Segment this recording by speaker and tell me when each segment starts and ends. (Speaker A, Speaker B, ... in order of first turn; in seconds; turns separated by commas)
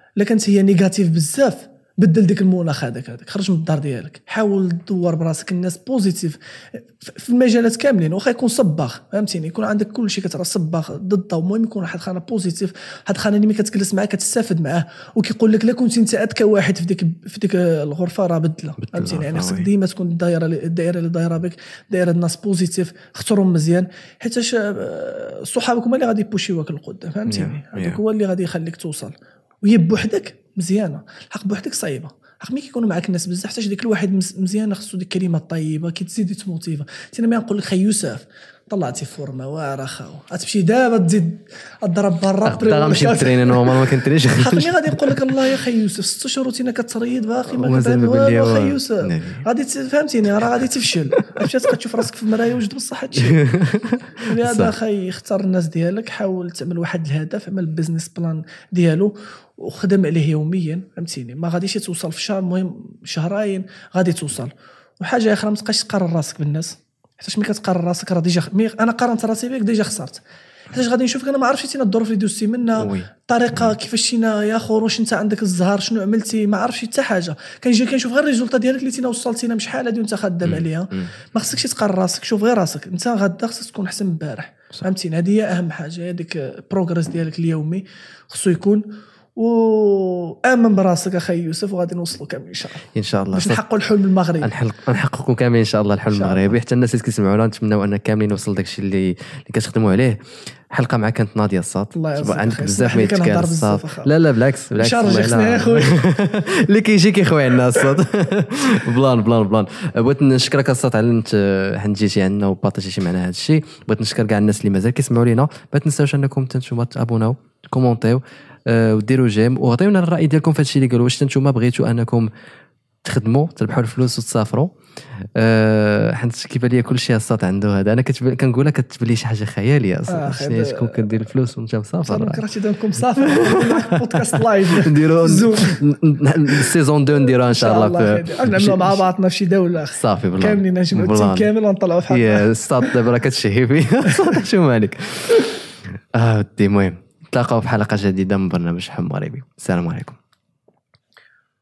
Speaker A: 0.2-53.4, Speaker B: 18.8-19.7, Speaker B: 27.3-28.0, Speaker B: 42.4-45.5, Speaker B: 47.5-49.4, Speaker B: 51.1-51.5, Speaker B: 53.2-54.7, Speaker A: 54.2-94.5, Speaker B: 72.8-73.8, Speaker B: 80.4-81.1, Speaker B: 92.9-93.6, Speaker B: 94.4-122.3, Speaker A: 96.1-96.6, Speaker A: 101.9-104.1, Speaker A: 104.8-106.0, Speaker B: 123.0-132.4, Speaker A: 130.1-131.1, Speaker A: 132.0-135.8, Speaker B: 133.2-139.0, Speaker A: 136.5-143.0, Speaker B: 139.9-141.5, Speaker B: 142.1-150.2